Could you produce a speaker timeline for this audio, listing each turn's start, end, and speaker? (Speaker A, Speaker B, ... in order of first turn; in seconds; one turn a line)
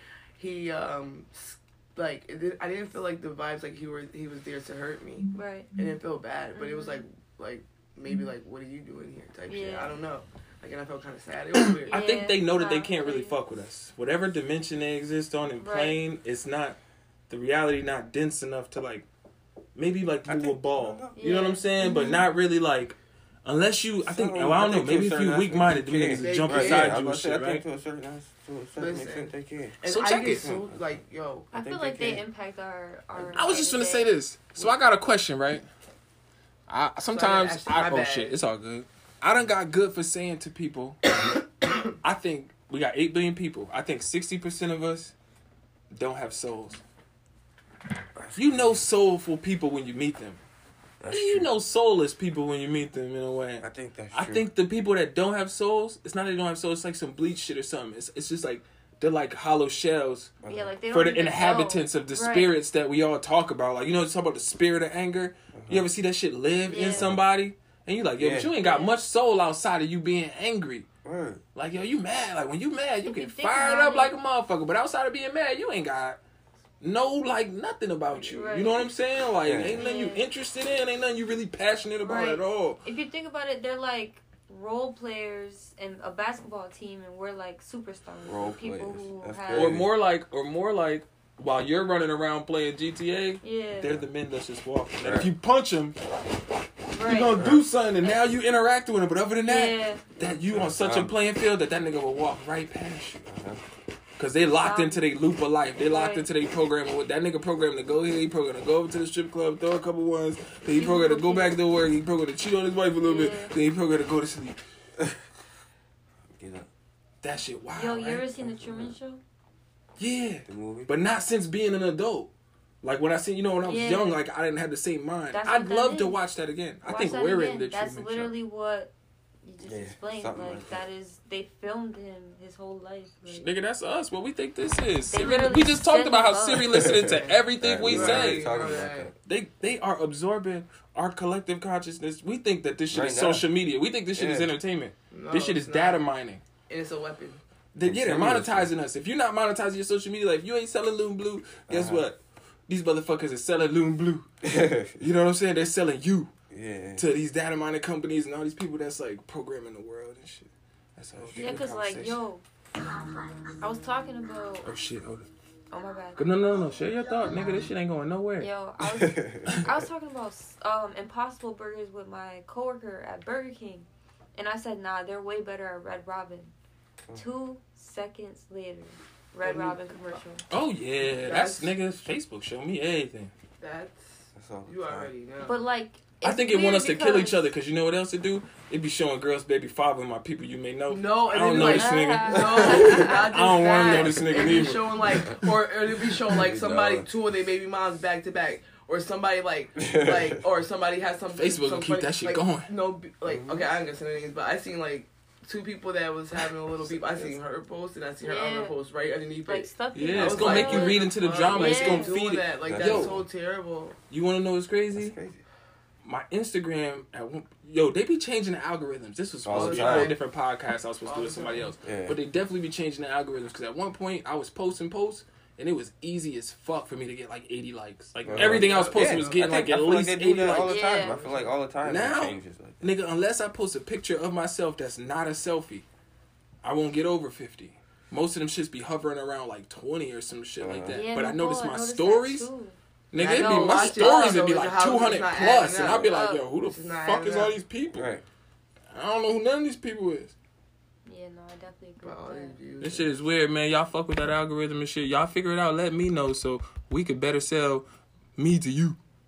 Speaker A: 0.4-12.0
Speaker B: 5.3-5.7
Speaker B: 6.5-7.0
Speaker B: 9.5-9.9
Speaker C: 11.6-16.8
Speaker B: 11.9-13.4
Speaker B: 15.6-16.0
Speaker C: 17.3-19.1
Speaker C: 19.8-27.6
Speaker D: 20.2-21.2
Speaker B: 21.1-22.2
Speaker A: 21.8-22.2
Speaker D: 24.1-30.9
Speaker A: 26.2-27.0
Speaker A: 28.8-31.5
Speaker C: 29.8-30.5
Speaker B: 31.5-34.1
Speaker D: 31.5-32.2
Speaker C: 33.2-35.7
Speaker C: 36.7-41.2
Speaker A: 37.1-38.4
Speaker C: 42.0-45.1
Speaker C: 45.9-46.8
Speaker D: 48.1-48.9
Speaker C: 48.3-50.4
Speaker D: 51.0-51.5
Speaker C: 51.1-60.3
Speaker D: 53.6-54.5
Speaker D: 60.4-60.7
Speaker B: 60.5-62.5
Speaker C: 60.9-70.9
Speaker D: 65.5-65.9
Speaker B: 66.7-67.1
Speaker D: 66.8-67.2
Speaker D: 68.2-68.5
Speaker B: 68.6-68.9
Speaker D: 71.0-71.4
Speaker C: 71.5-76.2
Speaker B: 73.0-74.1
Speaker C: 76.8-82.8
Speaker B: 78.2-78.8
Speaker D: 79.4-79.9
Speaker B: 79.8-80.2
Speaker B: 82.0-89.8
Speaker D: 88.2-89.9
Speaker C: 89.5-96.0
Speaker B: 93.4-93.9
Speaker D: 93.8-94.1
Speaker D: 95.0-95.3
Speaker B: 96.9-97.3
Speaker C: 97.0-103.2
Speaker B: 99.4-100.0
Speaker D: 100.5-101.1
Speaker D: 103.2-103.6
Speaker C: 104.2-114.6
Speaker B: 104.5-105.1
Speaker B: 105.8-106.2
Speaker B: 110.7-111.5
Speaker B: 113.0-113.5
Speaker D: 116.2-116.7
Speaker C: 117.2-118.2
Speaker B: 117.7-119.2
Speaker D: 118.4-119.0
Speaker C: 120.0-122.3
Speaker D: 120.5-120.9
Speaker C: 122.8-128.3
Speaker B: 123.6-124.2
Speaker B: 125.3-126.2
Speaker B: 126.8-128.9
Speaker B: 129.4-133.5
Speaker D: 129.6-130.8
Speaker C: 133.3-146.4
Speaker B: 135.1-137.0
Speaker D: 136.7-139.1
Speaker A: 137.1-139.1
Speaker D: 142.9-143.4
Speaker D: 144.1-144.5
Speaker A: 145.1-146.0
Speaker A: 146.7-147.4
Speaker C: 147.7-154.3
Speaker D: 147.8-148.7
Speaker D: 151.7-152.1
Speaker D: 154.4-155.0
Speaker C: 154.9-156.3
Speaker D: 156.5-157.0
Speaker C: 156.9-162.1
Speaker D: 161.1-162.1
Speaker B: 161.3-162.4
Speaker B: 163.6-164.7
Speaker C: 164.6-165.3
Speaker B: 165.7-166.5
Speaker C: 166.2-168.5
Speaker B: 168.4-176.5
Speaker D: 168.9-169.5
Speaker C: 169.4-169.7
Speaker B: 177.1-180.4
Speaker A: 179.4-180.2
Speaker C: 180.5-183.3
Speaker A: 181.1-181.7
Speaker A: 183.6-185.6
Speaker D: 184.3-185.1
Speaker B: 185.4-187.4
Speaker C: 186.2-195.4
Speaker A: 190.9-214.0
Speaker B: 191.5-194.6
Speaker D: 195.2-197.1
Speaker D: 199.8-200.3
Speaker C: 201.3-202.7
Speaker D: 203.2-203.7
Speaker D: 206.8-207.3
Speaker B: 208.2-208.8
Speaker B: 209.4-212.2
Speaker C: 209.9-213.2
Speaker D: 212.6-213.2
Speaker C: 214.1-215.2
Speaker D: 214.9-215.4
Speaker C: 216.0-235.8
Speaker D: 219.4-220.2
Speaker A: 219.5-220.2
Speaker A: 221.0-221.7
Speaker D: 221.8-222.2
Speaker D: 228.2-232.8
Speaker A: 228.3-229.4
Speaker B: 230.6-231.2
Speaker C: 236.6-242.5
Speaker D: 240.6-241.0
Speaker B: 240.9-244.5
Speaker C: 243.1-248.2
Speaker A: 243.1-247.5
Speaker B: 246.1-246.4
Speaker D: 247.9-248.2
Speaker C: 248.9-250.3
Speaker B: 251.1-252.6
Speaker A: 252.0-253.2
Speaker C: 252.8-259.0